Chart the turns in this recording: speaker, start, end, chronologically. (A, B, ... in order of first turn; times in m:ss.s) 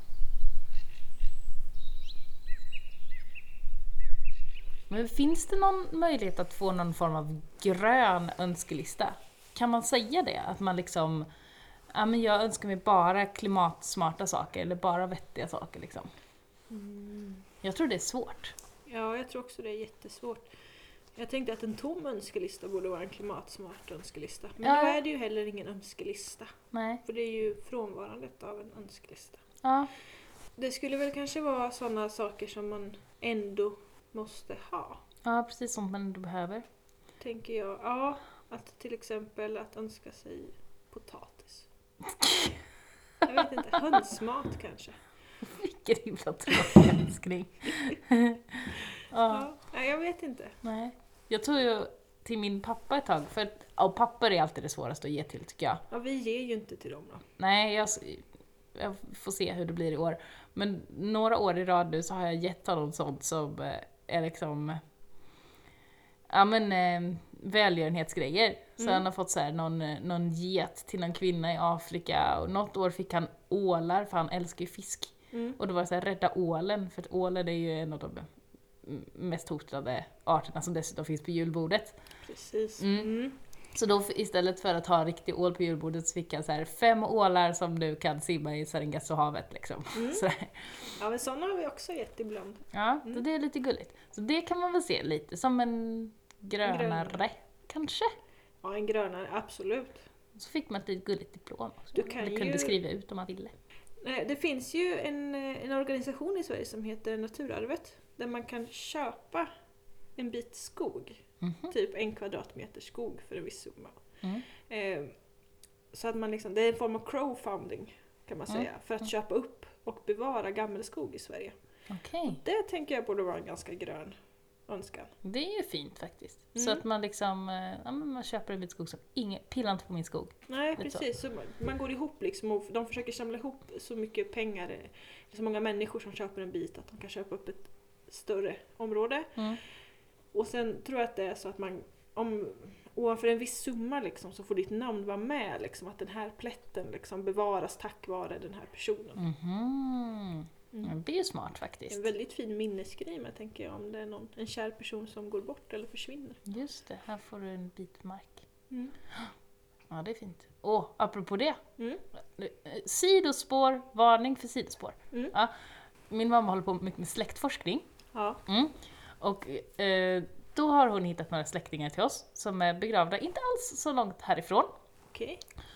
0:04.9-0:11.3 A
0:11.9-0:16.1 A
0:16.7-0:17.5 B
0:17.6-0:18.6 A
0:18.9-0:20.5 B
0:21.2-0:29.4 B
0:24.6-0:25.0 A
0:26.7-0:27.0 A
0:29.6-0:29.9 A
0:30.6-0:35.0 B
0:35.2-0:36.6 A
0:37.2-0:41.7 B
0:42.0-0:42.6 A
0:43.2-0:45.0 B
0:45.4-0:49.5 A
0:49.2-0:50.6 B
0:50.6-0:55.8 A
0:55.9-0:57.2 B
0:57.4-1:04.8 A
1:06.3-1:18.3 A
1:08.8-1:09.0 B
1:15.3-1:15.6 B
1:18.8-1:22.0 A
1:22.2-1:23.4 B
1:22.8-1:23.1 A
1:23.7-1:30.7 A
1:29.9-1:30.2 B
1:31.0-1:33.2 B
1:32.7-1:38.1 A
1:36.6-1:37.3 B
1:38.6-1:40.0 B
1:40.4-1:43.5 A
1:42.0-1:42.8 B
1:44.0-1:49.5 B
1:50.2-1:54.0 B
1:51.4-1:51.7 A
1:54.7-1:55.2 B
1:55.9-2:01.6 B
2:01.9-2:02.4 A
2:02.2-2:04.2 B
2:04.7-2:05.1 B
2:05.2-2:11.0 A
2:06.6-2:06.8 B
2:10.5-2:19.4 B
2:20.3-2:29.2 B
2:29.2-2:32.1 A
2:31.9-2:36.4 B
2:36.5-2:38.4 A
2:39.9-2:41.6 A
2:42.4-2:45.5 A
2:46.1-2:47.9 A
2:48.1-2:48.4 B
2:48.5-2:54.7 A
2:55.1-2:55.4 B